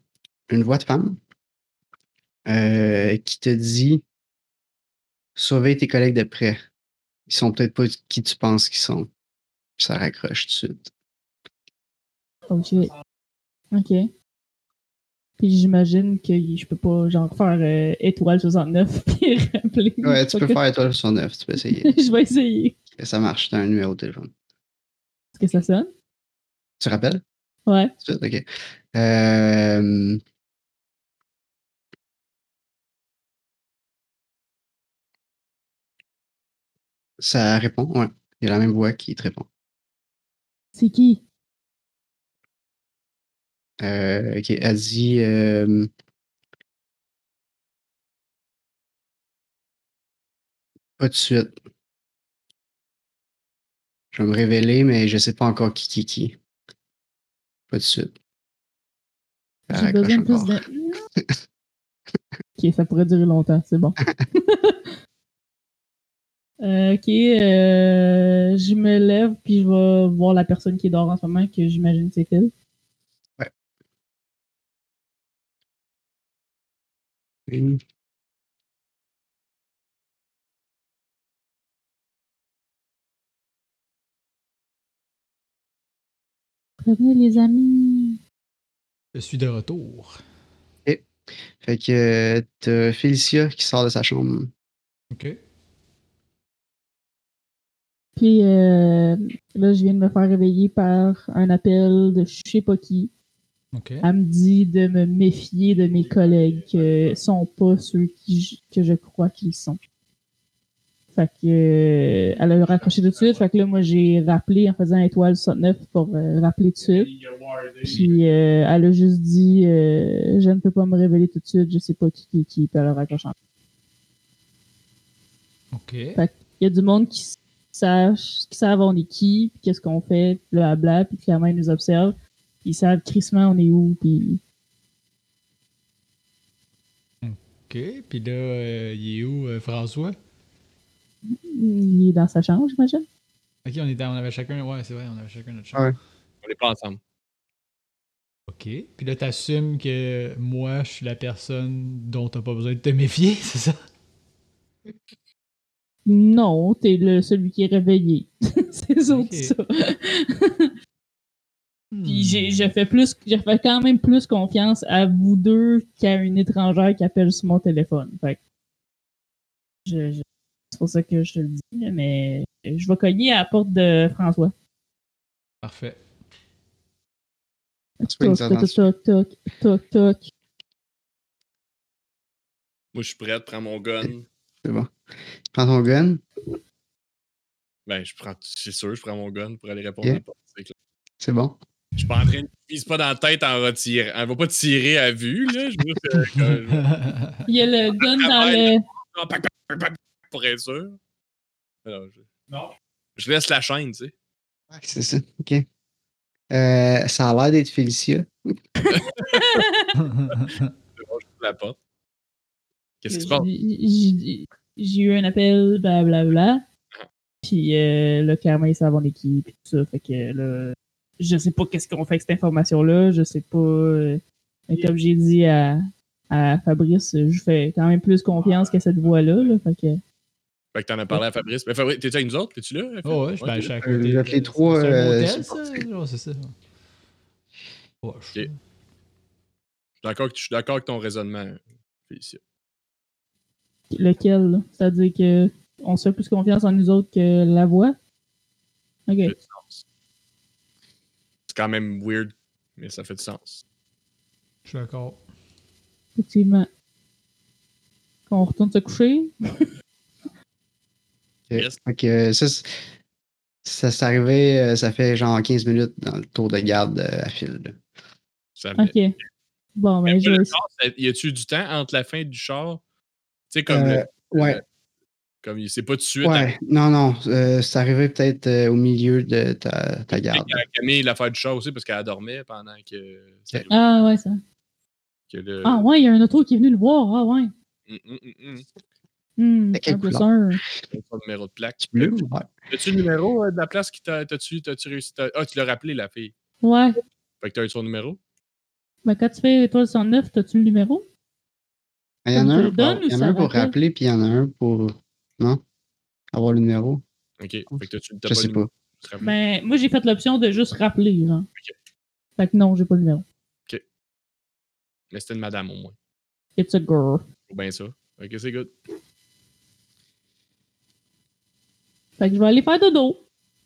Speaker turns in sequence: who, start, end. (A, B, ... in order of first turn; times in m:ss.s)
0:00.5-0:01.2 A
0:02.5-0:04.0 A
0:05.4-0:06.6 A
0:07.3-0:09.1 A
0:09.8-0:10.9 A
0:12.5-0:12.9 B
0:13.7-0:14.1 B
0:15.4-0:20.6 B
0:20.0-0:21.9 A
0:21.7-0:22.8 B
0:23.0-0:24.3 A
0:25.4-0:25.9 B
0:26.8-0:27.2 A
0:27.7-0:27.9 B
0:28.0-0:30.2 A
0:37.2-0:39.5 A
0:40.8-0:41.2 B
0:43.8-0:45.9 A
0:51.0-0:51.6 A
0:54.1-0:56.4 A
0:57.7-0:58.1 A
0:59.7-1:00.6 A
0:59.7-1:01.0 B
1:02.6-1:04.9 B
1:06.6-1:12.5 B
1:17.5-1:17.8 A
1:26.8-1:28.2 B
1:29.2-1:30.2 C
1:31.6-1:34.5 A
1:35.1-1:35.4 C
1:38.2-1:43.1 B
1:43.7-1:44.1 C
1:44.0-1:49.8 B
1:51.2-1:57.1 B
1:57.2-1:58.1 D
1:57.8-2:03.3 B
2:05.7-2:06.2 C
2:06.2-2:14.4 B
2:17.2-2:20.2 C
2:21.3-2:23.0 B
2:23.6-2:25.9 C
2:26.4-2:27.0 D
2:28.5-2:33.8 C
2:36.1-2:40.7 B
2:39.1-2:39.5 C
2:41.9-2:42.7 C
2:42.1-2:48.4 B
2:49.8-2:54.5 B
2:55.6-2:56.0 C
2:58.0-3:00.3 B
2:58.0-2:58.8 A
3:02.9-3:04.3 D
3:04.6-3:04.9 A
3:05.5-3:06.2 A
3:07.9-3:10.7 D
3:11.2-3:11.6 A
3:12.0-3:16.9 D
3:16.3-3:17.5 C
3:17.5-3:18.8 B
3:18.0-3:21.0 D
3:21.8-3:22.3 D
3:23.2-3:24.1 D
3:24.7-3:25.7 A
3:26.5-3:28.3 A
3:28.9-3:29.9 B
3:28.9-3:29.6 D
3:30.0-3:30.7 C
3:30.3-3:31.8 D
3:33.0-3:33.5 D
3:33.1-3:36.6 B
3:37.4-3:50.0 B
3:50.7-3:53.7 D
3:53.0-3:56.6 C
3:53.8-3:55.8 A
3:58.0-3:58.6 C
4:00.0-4:02.4 D
4:03.9-4:08.0 B
4:09.1-4:09.3 B
4:09.2-4:09.8 D
4:11.5-4:13.6 D
4:14.7-4:15.2 C
4:16.2-4:16.7 B
4:18.3-4:19.4 B
4:21.5-4:22.7 A
4:23.6-4:27.8 A
4:28.6-4:29.0 D
4:28.8-4:29.1 B
4:29.8-4:30.6 B
4:30.0-4:32.8 D
4:33.5-4:34.6 D
4:33.7-4:34.6 A
4:35.4-4:36.5 D
4:36.2-4:40.6 A
4:40.2-4:43.8 D
4:43.7-4:44.4 B
4:45.3-4:45.9 D
4:45.6-4:47.5 B
4:47.9-4:48.7 D
4:49.4-4:50.6 B
4:49.8-4:50.3 A
4:50.9-4:56.3 D
4:51.8-4:52.5 A
4:56.6-4:57.0 B
4:57.4-4:58.2 D
4:59.0-5:01.0 B
5:02.2-5:05.6 A
5:02.4-5:03.7 B
5:06.3-5:07.0 A
5:07.4-5:09.3 D
5:07.8-5:08.7 A
5:09.2-5:11.5 B
5:12.4-5:13.2 B
5:15.1-5:16.0 D
5:16.6-5:17.2 B
5:17.5-5:18.7 D
5:22.2-5:23.2 B